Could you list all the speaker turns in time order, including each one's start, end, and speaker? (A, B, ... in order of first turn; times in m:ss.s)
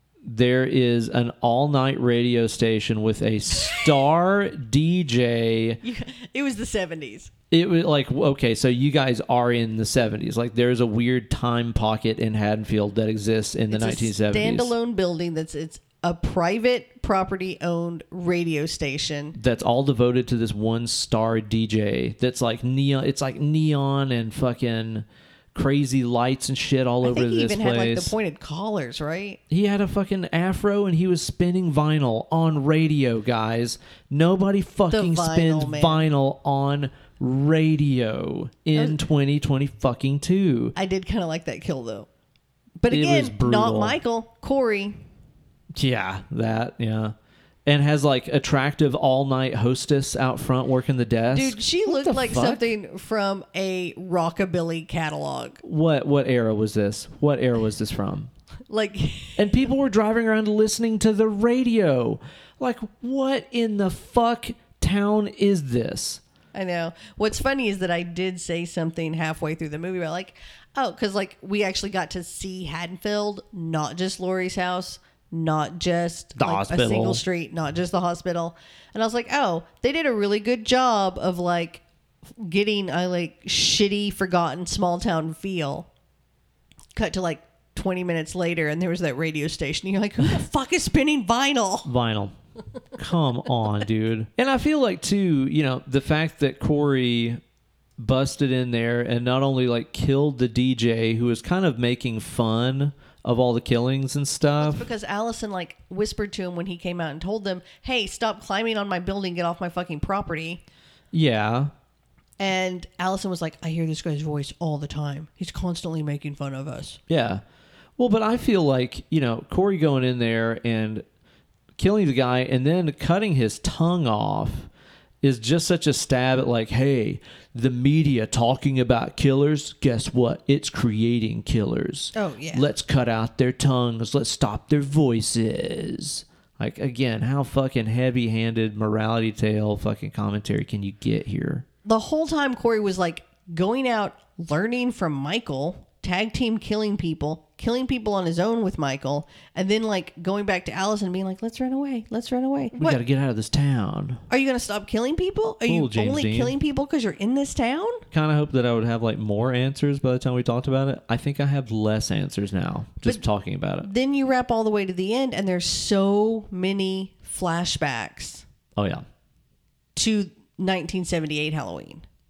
0:00.2-0:05.8 A
0:03.6-0:04.0 B
0:05.8-0:07.3 B
0:07.5-0:14.7 A
0:13.7-0:19.4 B
0:19.4-0:28.1 A
0:27.0-0:29.4 B
0:29.5-0:40.7 A
0:34.9-0:36.0 B
0:40.8-0:42.1 B
0:42.8-0:45.0 B
0:42.9-0:44.0 A
0:45.7-0:47.1 A
0:47.6-0:52.7 A
0:51.3-0:55.6 B
0:55.6-0:58.3 A
0:58.7-0:59.7 B
0:59.4-1:06.2 A
1:06.5-1:21.8 B
1:16.3-1:17.2 A
1:22.4-1:25.9 B
1:26.9-1:31.9 B
1:31.8-1:32.3 A
1:32.9-1:37.4 A
1:38.0-1:44.9 A
1:44.6-1:50.6 B
1:51.1-1:51.7 A
1:52.4-1:57.0 B
1:57.1-1:57.4 A
1:58.0-2:01.0 A
2:01.8-2:04.7 A
2:05.2-2:21.6 A
2:12.1-2:12.7 B
2:21.8-2:33.0 B
2:32.7-2:34.2 A
2:34.3-2:38.0 B
2:35.7-2:36.6 A
2:38.1-2:43.9 A
2:43.8-2:48.4 B
2:48.8-2:49.0 A
2:49.9-2:52.0 B